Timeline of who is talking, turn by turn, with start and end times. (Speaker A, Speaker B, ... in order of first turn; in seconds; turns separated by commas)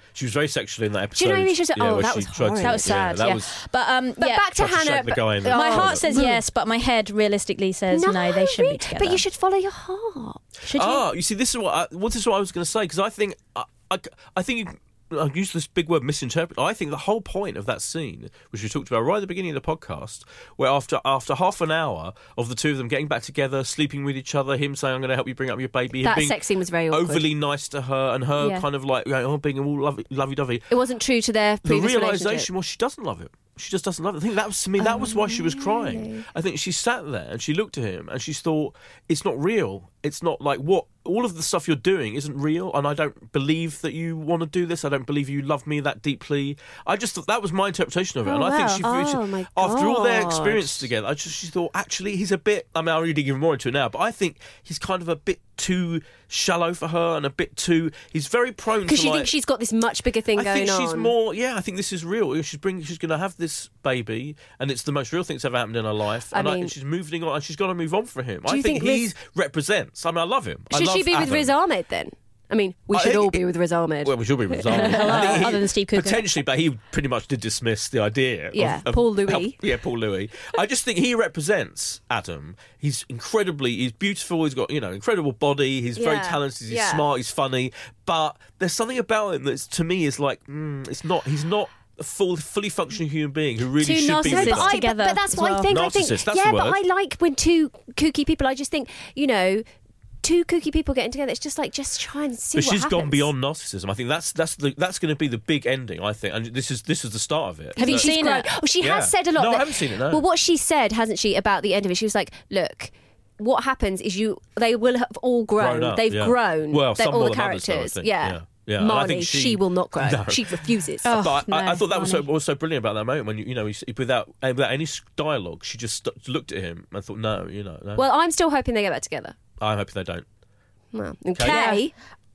Speaker A: 0.1-3.5, Speaker B: 1.1-3.4, Speaker C: 2.6-4.5, Speaker B: 4.2-6.4, Speaker A: 4.5-6.0, Speaker C: 5.5-9.2, Speaker B: 7.9-10.4, Speaker C: 10.6-11.0, Speaker A: 10.8-26.4, Speaker B: 26.0-27.2, Speaker A: 26.9-30.6, Speaker B: 28.4-28.6, Speaker B: 30.7-32.5, Speaker A: 31.6-59.3, Speaker B: 34.8-36.2, Speaker B: 48.2-50.9, Speaker C: 48.4-48.8, Speaker B: 58.8-61.1, Speaker A: 60.3-71.5, Speaker B: 66.3-66.7, Speaker B: 68.5-69.1, Speaker B: 70.7-75.6, Speaker A: 72.9-73.4, Speaker A: 74.0-94.8, Speaker C: 74.7-76.3, Speaker B: 78.5-79.6, Speaker B: 86.0-87.0, Speaker C: 93.8-95.7, Speaker B: 94.2-99.7, Speaker A: 95.7-96.8, Speaker B: 100.2-103.3, Speaker A: 102.5-108.1, Speaker C: 107.8-108.5, Speaker B: 107.8-121.1, Speaker A: 108.8-110.2, Speaker A: 115.6-128.1, Speaker C: 121.0-122.2, Speaker B: 128.0-129.4, Speaker A: 129.6-130.2, Speaker B: 130.9-131.9, Speaker A: 131.3-131.6, Speaker C: 131.4-131.8